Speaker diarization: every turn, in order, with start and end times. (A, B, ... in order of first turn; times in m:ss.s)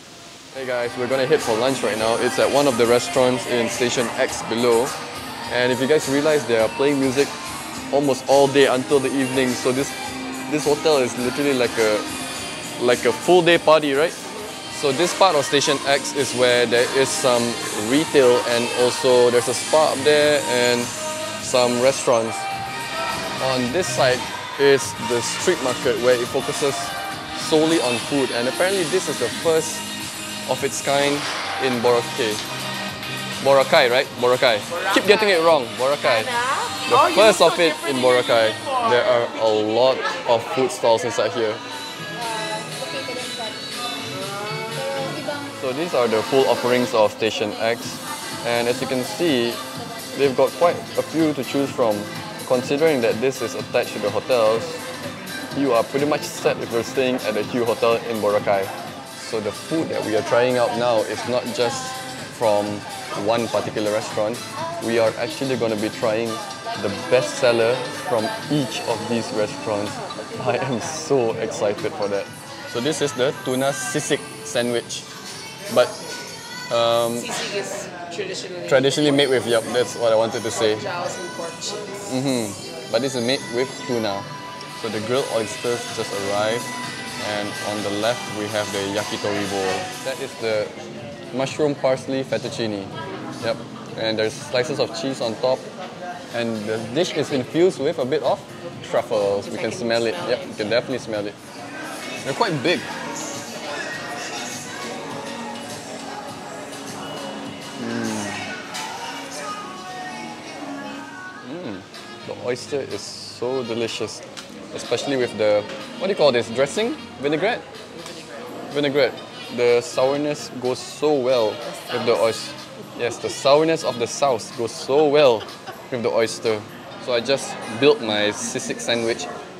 0:00.5-0:05.0 A
0:05.5-0:07.3 A
0:07.9-0:09.9 A
0:10.5-0:12.1 A
0:12.8-0:14.2 A
0:14.7-0:22.5 A
0:23.4-0:29.9 A
0:30.4-0:32.4 A
0:33.4-0:36.3 A
0:34.7-0:40.8 B
0:36.8-0:41.6 A
0:44.1-0:45.3 B
0:45.5-0:49.6 A
0:50.1-0:54.7 A
0:55.5-1:15.1 A
1:09.8-1:12.1 B
1:15.7-1:15.9 A
1:16.7-1:17.3 A
1:17.1-1:19.7 B
1:18.7-1:20.8 A
1:20.5-1:22.2 B
1:22.1-1:30.7 A
1:31.3-1:35.6 A
1:36.3-1:41.4 A
1:37.1-1:37.5 B
1:39.2-1:40.5 B
1:42.2-1:42.9 A
1:47.8-1:48.5 A
1:51.4-1:57.7 A
1:57.9-1:58.5 B
1:58.7-2:09.3 A
2:01.6-2:02.3 B